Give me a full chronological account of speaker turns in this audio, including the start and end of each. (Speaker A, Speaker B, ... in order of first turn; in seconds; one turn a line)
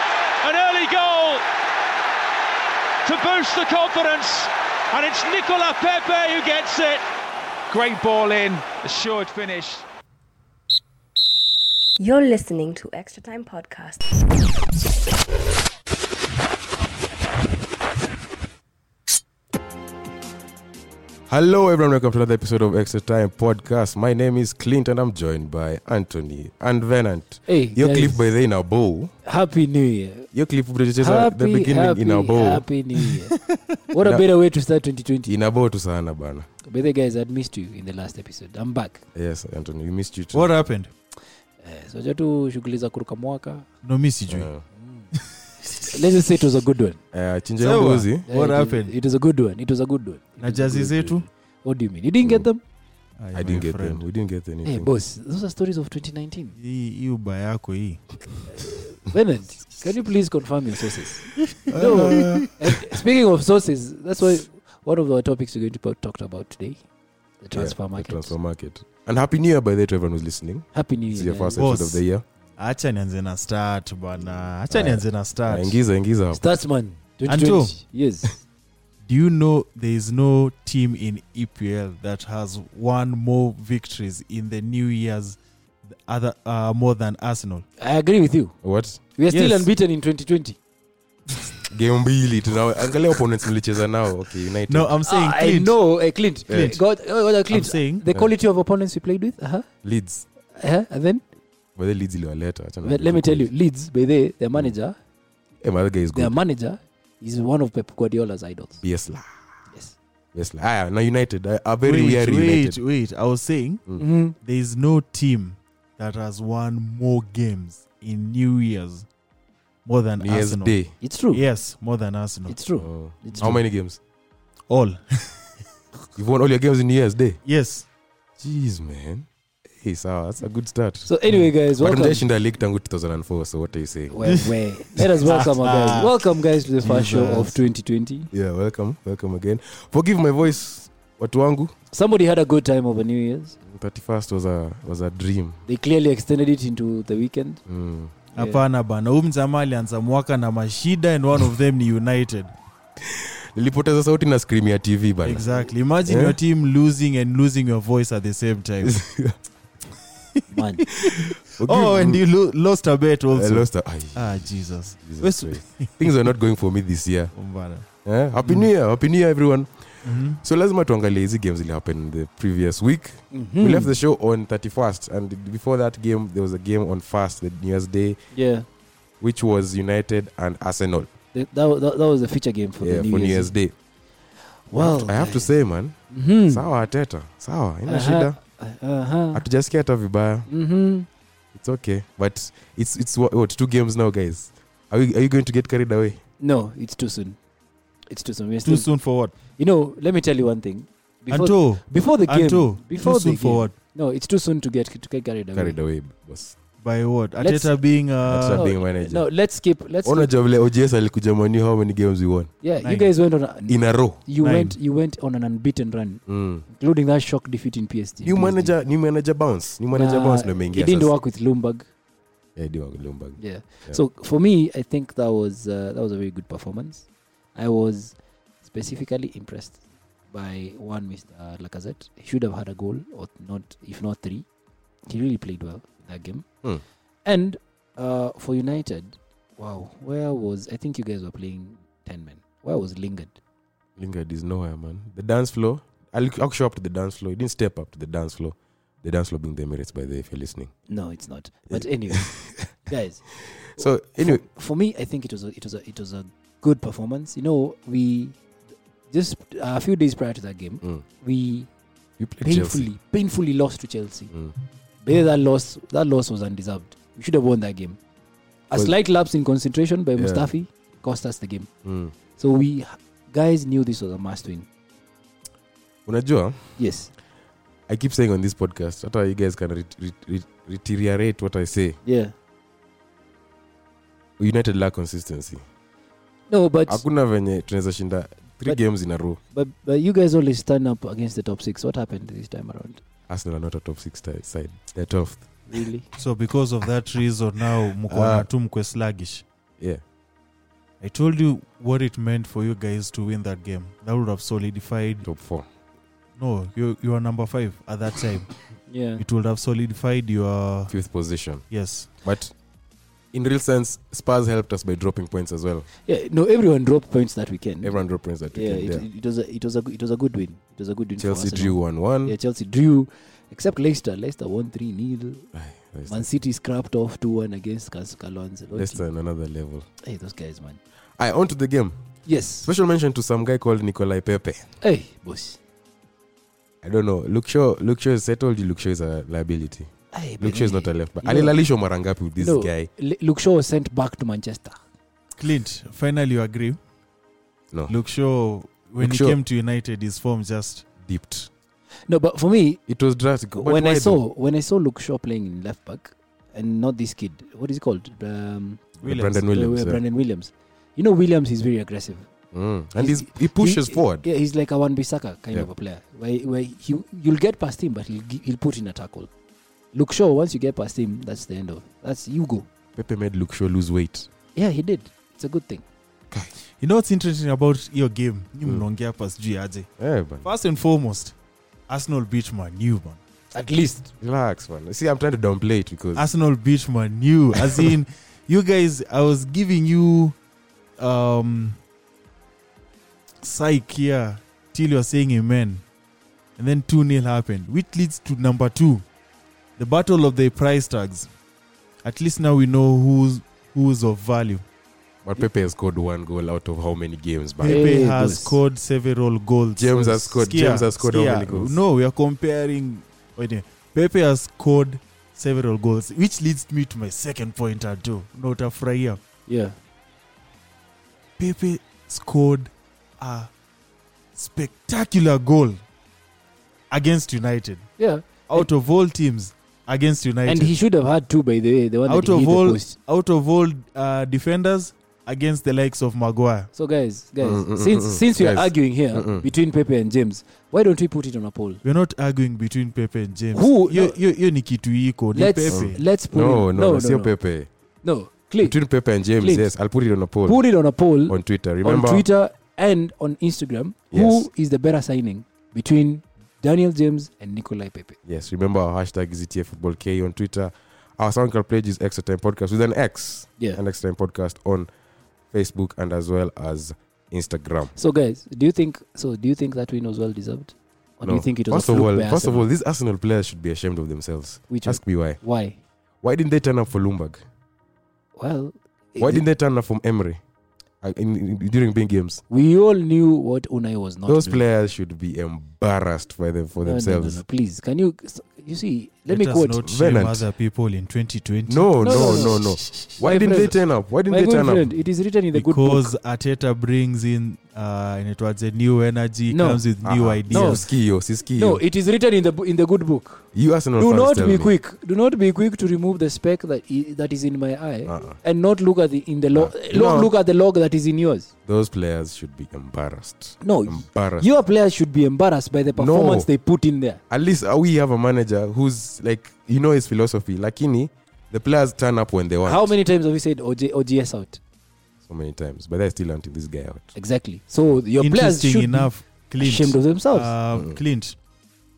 Speaker A: 0.4-1.4
Speaker A: 3.0-7.0
Speaker A: 7.7-9.8
Speaker B: 12.0-14.1
Speaker C: 21.3-29.1
Speaker D: 27.5-28.2
Speaker D: 29.2-30.3
Speaker C: 30.3-32.6
Speaker D: 31.0-33.3
Speaker E: 33.0-33.6
Speaker D: 33.9-35.3
Speaker C: 35.3-36.5
Speaker D: 36.6-39.0
Speaker C: 39.1-40.5
Speaker E: 40.3-40.9
Speaker D: 41.6-43.7
Speaker E: 43.8-44.5
Speaker C: 44.3-44.7
Speaker D: 44.8-45.1
Speaker E: 45.2-45.9
Speaker D: 45.9-47.0
Speaker C: 47.1-48.3
Speaker E: 47.6-48.9
Speaker D: 48.3-51.0
Speaker E: 50.4-51.3
Speaker C: 50.8-51.2
Speaker D: 51.6-52.6
Speaker E: 53.2-54.0
Speaker C: 53.3-54.9
Speaker D: 54.6-56.5
Speaker E: 56.6-58.0
Speaker D: 58.6-66.8
Speaker E: 61.6-62.5
Speaker C: 61.7-63.0
Speaker D: 67.4-68.3
Speaker C: 67.5-72.2
Speaker D: 70.7-71.7
Speaker E: 71.6-72.0
Speaker E: 72.6-75.8
Speaker C: 74.7-76.5
Speaker D: 76.3-78.4
Speaker E: 77.3-77.8
Speaker E: 79.0-85.4
Speaker E: 85.9-87.6
Speaker D: 87.8-88.5
Speaker C: 88.6-89.0
Speaker D: 89.2-90.6
Speaker E: 89.3-89.7
Speaker C: 91.6-95.0
Speaker E: 94.7-95.8
Speaker D: 95.0-99.7
Speaker C: 96.5-96.8
Speaker E: 96.5-96.8
Speaker E: 97.5-98.0
Speaker C: 99.8-100.2
Speaker D: 100.5-101.2
Speaker C: 101.8-103.5
Speaker D: 102.8-105.0
Speaker C: 105.6-106.4
Speaker D: 106.1-108.8
Speaker C: 108.8-109.3
Speaker D: 109.7-110.0
Speaker C: 110.3-112.8
Speaker E: 111.8-119.1
Speaker D: 114.0-114.4
Speaker E: 119.8-122.6
Speaker C: 120.2-120.9
Speaker D: 121.0-121.4
Speaker D: 122.5-123.5
Speaker C: 122.8-124.0
Speaker E: 123.3-123.6
Speaker E: 124.7-125.5
Speaker C: 126.2-127.4
Speaker E: 127.5-127.9
Speaker C: 128.4-129.3
Speaker C: 129.8-131.1
Speaker D: 131.1-132.3
Speaker C: 131.7-134.4
Speaker D: 134.1-138.3
Speaker E: 134.3-136.2
Speaker E: 136.8-137.6
Speaker C: 138.3-141.7
Speaker D: 141.9-143.6
Speaker C: 143.7-145.6
Speaker D: 145.7-147.6
Speaker C: 147.7-148.1
Speaker D: 148.3-148.6
Speaker E: 148.4-152.5
Speaker C: 153.0-155.5
Speaker E: 155.2-159.0
Speaker C: 156.0-156.4
Speaker C: 158.8-159.4
Speaker D: 160.5-160.9
Speaker E: 160.6-166.3
Speaker C: 161.1-162.2
Speaker C: 163.3-164.5
Speaker C: 165.0-167.3
Speaker E: 167.3-167.9
Speaker C: 168.1-178.2
Speaker E: 168.4-168.7
Speaker E: 170.0-170.4
Speaker D: 173.3-174.0
Speaker D: 178.3-178.7
Speaker C: 179.2-181.1
Speaker D: 181.3-183.5
Speaker C: 182.8-183.8
Speaker D: 184.5-185.5
Speaker C: 184.8-186.0
Speaker D: 186.1-186.7
Speaker C: 186.5-188.4
Speaker D: 187.9-189.4
Speaker C: 189.3-190.5
Speaker D: 190.5-191.1
Speaker C: 191.5-196.2
Speaker D: 196.4-197.4
Speaker D: 198.1-198.9
Speaker E: 198.7-199.3
Speaker D: 199.5-205.8
Speaker E: 201.3-203.7
Speaker C: 205.6-206.6
Speaker E: 206.8-208.7
Speaker D: 207.4-207.8
Speaker C: 208.2-209.3
Speaker D: 208.5-210.3
Speaker C: 210.0-212.5
Speaker D: 212.6-218.8
Speaker E: 212.8-213.1
Speaker C: 213.7-214.2
Speaker E: 214.4-214.8
Speaker C: 216.3-216.7
Speaker C: 218.2-221.1
Speaker D: 219.9-221.9
Speaker C: 222.6-224.0
Speaker D: 223.4-229.8
Speaker D: 230.3-234.5
Speaker D: 235.1-236.5
Speaker D: 237.2-243.4
Speaker C: 244.0-250.7
Speaker D: 250.9-253.3
Speaker C: 251.7-252.7
Speaker C: 253.5-254.4
Speaker D: 253.8-258.4
Speaker D: 259.1-261.7
Speaker C: 262.2-262.9
Speaker D: 262.4-264.3
Speaker D: 265.0-268.0
Speaker D: 268.7-271.7
Speaker C: 270.2-270.5
Speaker C: 271.8-272.1
Speaker D: 272.4-274.7
Speaker C: 276.1-276.8
Speaker D: 276.8-277.1
Speaker C: 277.9-282.0
Speaker D: 282.1-282.3
Speaker C: 284.4-285.6
Speaker D: 286.5-287.0
Speaker C: 286.9-289.4
Speaker D: 289.5-293.0
Speaker C: 293.3-295.5
Speaker D: 295.7-296.1
Speaker E: 296.2-299.4
Speaker C: 298.1-298.5
Speaker E: 301.0-305.3
Speaker C: 305.2-305.7
Speaker E: 306.4-308.6
Speaker D: 308.9-309.2
Speaker E: 309.2-311.0
Speaker C: 310.9-311.7
Speaker E: 311.7-312.1
Speaker C: 312.2-312.5
Speaker C: 313.3-315.9
Speaker D: 316.1-318.0
Speaker C: 317.8-319.1
Speaker D: 318.5-325.5
Speaker C: 321.2-322.4
Speaker C: 325.5-326.3
Speaker D: 326.1-329.0
Speaker C: 328.7-329.9
Speaker D: 330.0-330.8
Speaker C: 331.2-332.0
Speaker D: 332.3-332.7
Speaker C: 332.6-334.7
Speaker D: 334.8-335.6
Speaker C: 336.8-342.9
Speaker D: 340.1-341.6
Speaker D: 342.4-344.8
Speaker E: 345.4-346.8
Speaker E: 347.9-350.9
Speaker C: 349.0-349.4
Speaker C: 351.0-351.5
Speaker D: 352.1-352.8
Speaker C: 352.9-354.2
Speaker D: 353.6-358.9
Speaker C: 359.0-360.0
Speaker E: 359.0-359.4
Speaker D: 359.5-362.3
Speaker C: 362.5-364.2
Speaker D: 363.0-369.3
Speaker D: 369.9-372.7
Speaker C: 373.0-374.3
Speaker D: 374.6-375.9
Speaker E: 376.8-379.9
Speaker C: 380.0-380.5
Speaker E: 380.4-381.4
Speaker E: 381.9-383.2
Speaker D: 383.5-384.1
Speaker C: 384.2-386.3
Speaker E: 386.1-390.4
Speaker E: 391.0-391.8
Speaker E: 393.4-395.8
Speaker E: 396.6-399.0
Speaker E: 399.8-401.3
Speaker E: 402.0-404.6
Speaker C: 405.2-407.9
Speaker E: 407.6-419.2
Speaker D: 407.6-408.6
Speaker C: 409.8-411.8
Speaker D: 419.5-419.8
Speaker E: 421.4-423.5
Speaker E: 424.4-425.8
Speaker E: 426.9-427.9
Speaker D: 428.0-428.7
Speaker E: 428.5-430.8
Speaker D: 430.5-432.9
Speaker E: 432.1-436.7
Speaker D: 436.8-441.8
Speaker C: 437.4-439.5
Speaker E: 441.8-446.0
Speaker D: 443.5-444.2
Speaker D: 445.4-447.3
Speaker C: 445.7-447.7
Speaker D: 448.0-448.8
Speaker C: 448.6-450.6
Speaker D: 449.4-449.7
Speaker D: 450.4-458.2
Speaker C: 451.3-452.3
Speaker C: 454.1-454.5
Speaker C: 458.2-464.9
Speaker C: 465.5-467.9
Speaker D: 468.0-472.7
Speaker C: 471.2-475.4
Speaker D: 474.7-475.8
Speaker C: 476.2-477.4
Speaker D: 478.4-479.5
Speaker C: 479.2-480.4
Speaker C: 481.0-482.4
Speaker D: 482.5-484.6
Speaker C: 484.3-487.4
Speaker D: 486.8-489.8
Speaker E: 489.3-493.2
Speaker C: 489.8-490.4
Speaker C: 491.7-494.9
Speaker D: 492.0-496.1
Speaker E: 495.5-500.9
Speaker D: 499.5-499.9
Speaker C: 500.0-501.8
Speaker D: 500.5-500.8
Speaker D: 501.5-503.4
Speaker C: 503.5-504.7
Speaker D: 504.0-511.5
Speaker C: 508.1-508.4
Speaker C: 509.5-510.4
Speaker C: 511.7-514.5
Speaker D: 513.6-517.2
Speaker C: 516.0-516.5
Speaker C: 517.3-523.0
Speaker D: 522.6-524.6
Speaker C: 525.3-527.1
Speaker D: 527.1-530.5
Speaker E: 528.2-531.4
Speaker C: 530.7-531.0